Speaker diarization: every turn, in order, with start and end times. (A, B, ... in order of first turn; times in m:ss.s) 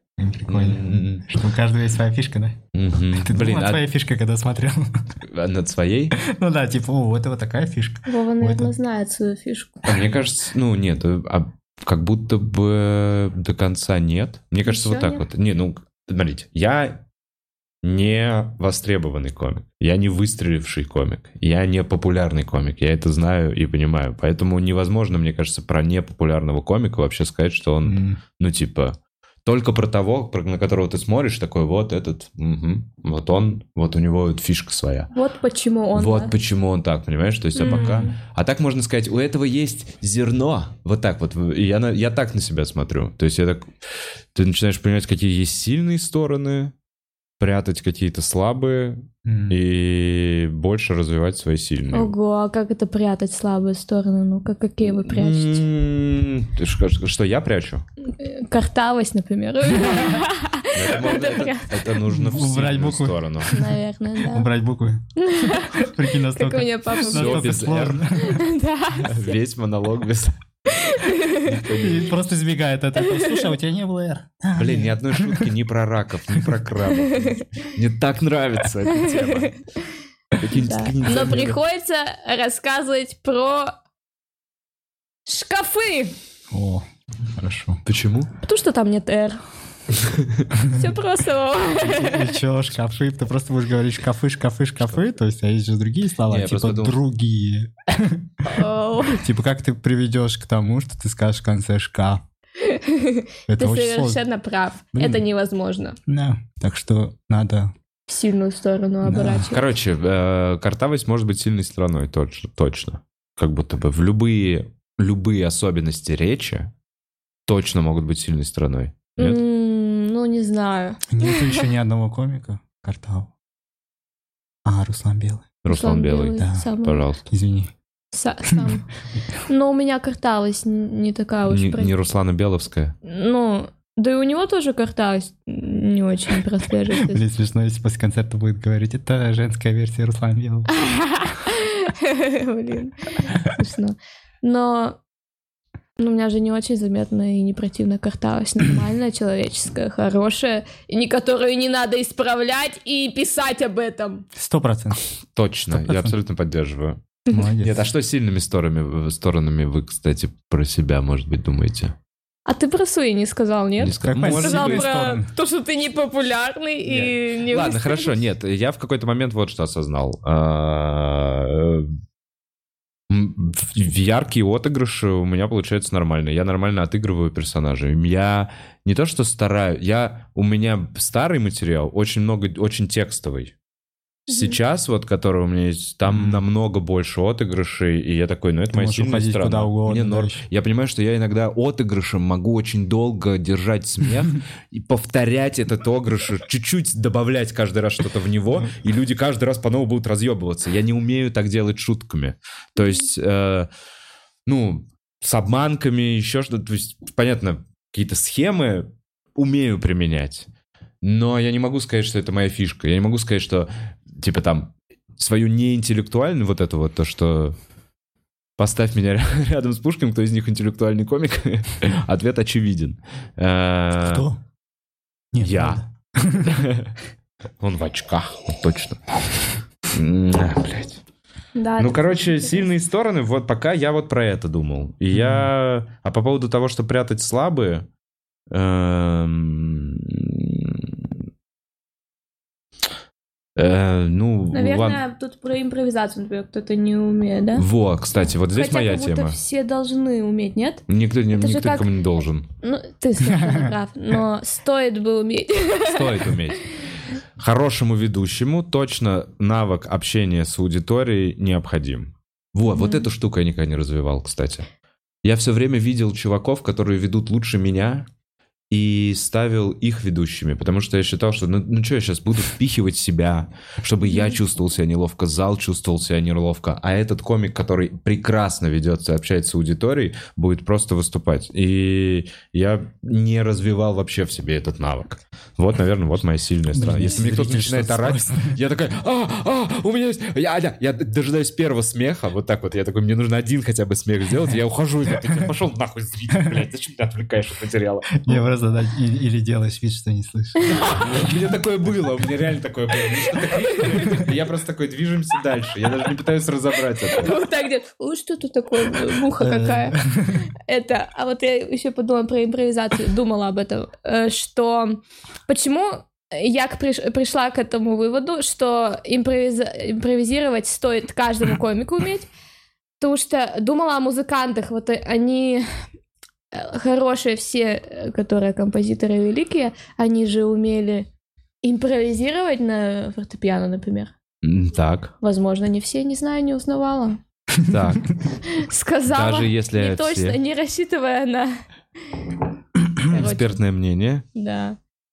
0:00.2-0:02.6 A
0:00.5-0:01.3 B
0:02.7-0:03.8 B
0:03.1-0:05.0 A
0:05.2-0:06.2 B
0:06.1-0:08.7 A
0:08.0-0:09.9 C
0:09.8-0:17.0 B
0:14.6-0:15.2 C
0:17.8-0:35.1 B
0:27.8-0:28.2 A
0:35.1-0:36.3 C
0:35.9-0:43.7 B
0:37.6-0:38.2 C
0:44.3-0:46.7 B
0:47.4-0:52.1 B
0:49.2-0:49.6 A
0:51.9-0:55.6 C
0:54.9-0:57.8 B
0:58.0-1:01.7 C
1:00.7-1:03.5 B
1:02.1-1:03.6 A
1:03.5-1:04.5 C
1:04.2-1:05.0 A
1:05.2-1:07.5 C
1:05.7-1:08.4 A
1:07.0-1:08.0 B
1:08.1-1:09.4 C
1:08.9-1:10.4 B
1:10.7-1:11.5 C
1:11.4-1:12.3 B
1:11.8-1:15.5 A
1:13.0-1:13.5 C
1:14.6-1:19.6 B
1:17.0-1:17.4 C
1:18.9-1:19.6 C
1:20.4-1:21.6 B
1:20.5-1:23.7 C
1:25.2-1:26.1 C
1:26.5-1:26.8 A
1:27.4-1:27.8 A
1:27.8-1:28.3 B
1:28.4-1:29.4 C
1:30.0-1:30.4 B
1:30.7-1:32.4 C
1:31.8-1:38.3 A
1:36.3-1:37.0 B
1:38.4-1:39.2 C
1:39.1-1:42.2 A
1:42.6-1:46.0 C
1:43.5-1:44.2 A
1:44.9-1:45.2 A
1:46.1-1:47.7 A
1:48.1-1:49.6 C
1:49.0-1:49.6 A
1:49.5-1:56.7 B
1:57.5-1:59.4 B
1:59.2-2:01.6 C
2:01.1-2:03.3 A
2:04.6-2:05.5 A
2:05.6-2:07.2 B
2:05.7-2:07.1 C
2:06.4-2:06.6 A
2:07.3-2:07.7 A
2:08.1-2:08.9 C
2:09.4-2:11.9 C
2:11.5-2:13.0 B
2:13.0-2:17.2 C
2:16.9-2:20.7 A
2:20.7-2:25.0 C
2:26.0-2:34.2 C
2:34.3-2:35.0 A
2:35.3-2:42.0 B
2:35.7-2:36.1 A
2:37.3-2:37.8 A
2:42.4-2:48.1 C
2:43.8-2:44.9 B
2:44.0-2:45.3 A
2:46.9-2:51.9 B
2:53.1-3:03.5 B
3:04.3-3:23.7 B
3:04.3-3:04.6 C
3:06.0-3:06.4 A
3:08.7-3:10.4 A
3:24.4-3:30.5 B
3:31.0-3:37.6 B
3:38.6-3:44.2 B
3:44.0-3:44.4 A
3:45.3-3:46.6 A
3:45.4-3:45.8 B
3:46.4-3:46.9 B
3:47.6-3:49.0 B
3:49.9-3:51.0 B
3:51.6-3:52.7 C
3:51.8-3:57.9 B
3:55.1-3:55.5 A
3:58.5-4:01.1 B
4:03.6-4:05.0 B
4:04.5-4:07.6 C
4:07.6-4:09.4 B
4:08.5-4:10.8 C
4:10.9-4:12.5 B
4:11.3-4:11.9 C
4:12.6-4:16.3 C
4:15.8-4:16.7 B
4:17.4-4:24.7 B
4:22.7-4:23.1 C
4:25.2-4:28.1 B
4:28.7-4:58.2 B
4:34.0-4:34.4 C
4:46.7-4:48.6 A
4:58.2-5:00.7 A
5:00.6-5:01.1 C
5:00.9-5:07.3 B
5:03.7-5:04.3 C
5:07.1-5:10.0 C
5:09.4-5:10.4 A
5:10.6-5:22.3 C
5:23.0-5:25.8 C
5:26.5-5:31.1 C
5:31.6-5:34.1 C
5:34.4-5:35.1 B
5:35.2-5:37.2 C
5:37.6-5:38.1 B
5:38.4-5:41.6 C
5:39.1-5:40.4 B
5:43.0-5:43.6 C
5:43.1-5:44.2 B
5:44.3-5:44.8 C